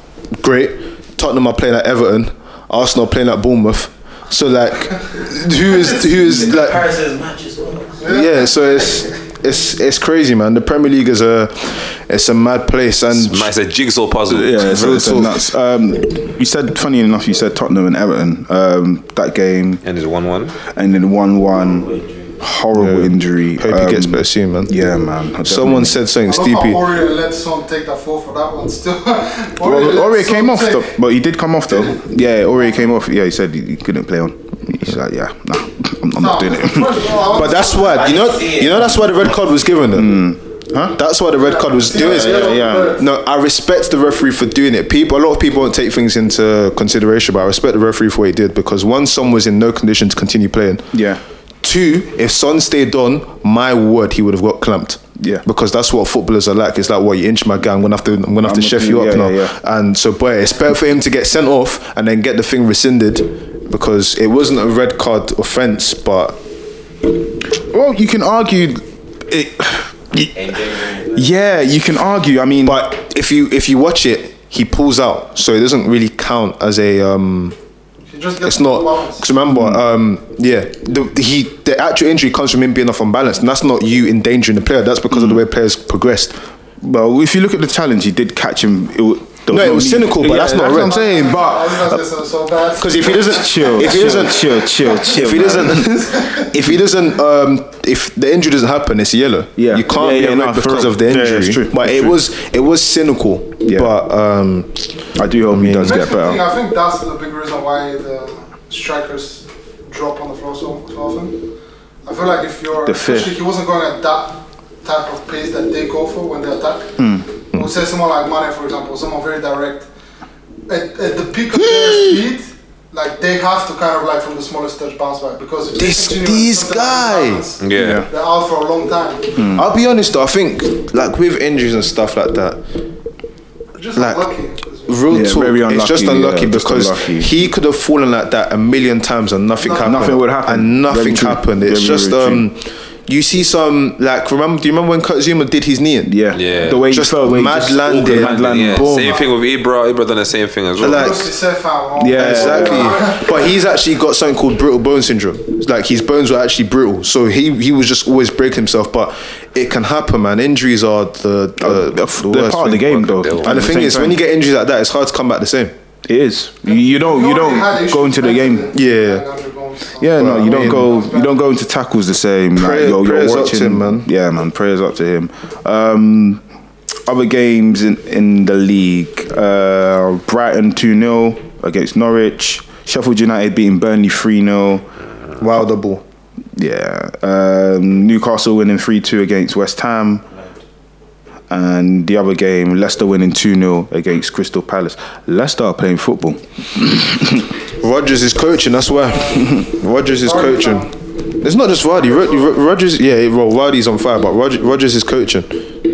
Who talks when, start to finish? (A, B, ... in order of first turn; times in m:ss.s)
0:00.4-0:06.9 A
0:05.7-0:08.1 B
0:08.0-0:08.5 C
0:08.0-0:13.5 A
0:13.1-0:14.6 D
0:14.3-0:19.8 E
0:14.6-0:15.5 A
0:19.8-0:20.6 D
0:20.7-0:26.0 E
0:21.5-0:22.4 B
0:22.7-0:24.7 A
0:25.4-0:26.9 A
0:26.2-0:30.9 C
0:29.6-0:37.1 E
0:36.2-0:38.2 C
0:37.2-0:40.3 A
0:37.9-0:39.3 B
0:39.9-0:41.0 E
0:40.9-0:50.9 A
0:41.4-0:43.0 C
0:41.9-0:43.0 E
0:50.9-0:51.2 E
0:51.6-1:06.4 A
0:55.2-0:55.4 E
0:58.4-0:59.6 E
1:07.7-1:10.3 E
1:10.3-1:11.3 B
1:11.1-1:12.9 E
1:12.7-1:17.6 A
1:18.1-1:19.3 C
1:18.4-1:26.4 A
1:19.5-1:19.8 E
1:25.1-1:25.4 E
1:26.8-1:32.0 E
1:29.5-1:31.1 A
1:30.4-1:34.1 C
1:32.8-1:44.8 A
1:33.2-1:36.2 E
1:35.9-1:36.5 C
1:39.6-1:42.2 E
1:43.6-1:43.9 E
1:45.2-1:46.4 E
1:45.5-1:46.0 A
1:45.8-1:51.4 C
1:52.0-1:57.0 C
1:52.8-1:53.4 E
1:57.0-1:57.3 E
1:57.5-1:59.9 C
2:00.7-2:09.4 C
2:01.7-2:02.2 E
2:05.8-2:07.5 A
2:07.6-2:08.0 D
2:07.7-2:08.1 E
2:09.4-2:09.7 E
2:09.4-2:12.6 A
2:13.8-2:15.1 C
2:14.0-2:14.2 A
2:14.9-2:26.2 A
2:15.1-2:17.3 E
2:19.6-2:20.1 C
2:19.6-2:22.5 E
2:26.0-2:29.1 E
2:26.3-2:26.8 D
2:26.7-2:29.2 A
2:27.9-2:31.2 D
2:30.8-2:31.3 A
2:30.8-2:33.3 C
2:32.0-2:33.0 E
2:32.0-2:45.7 A
2:41.6-2:44.2 E
2:42.8-2:43.5 D
2:46.1-2:48.7 E
2:46.6-2:51.4 C
2:48.7-2:49.2 A
2:50.0-2:56.4 E
2:50.0-2:50.9 A
2:52.6-2:54.1 A
2:57.1-3:04.9 E
3:05.4-3:06.0 A
3:06.6-3:10.3 E
3:10.3-3:10.6 B
3:11.5-3:17.5 E
3:17.8-3:20.9 A
3:19.1-3:19.5 C
3:20.2-3:21.0 C
3:21.4-3:25.7 A
3:21.8-3:22.6 C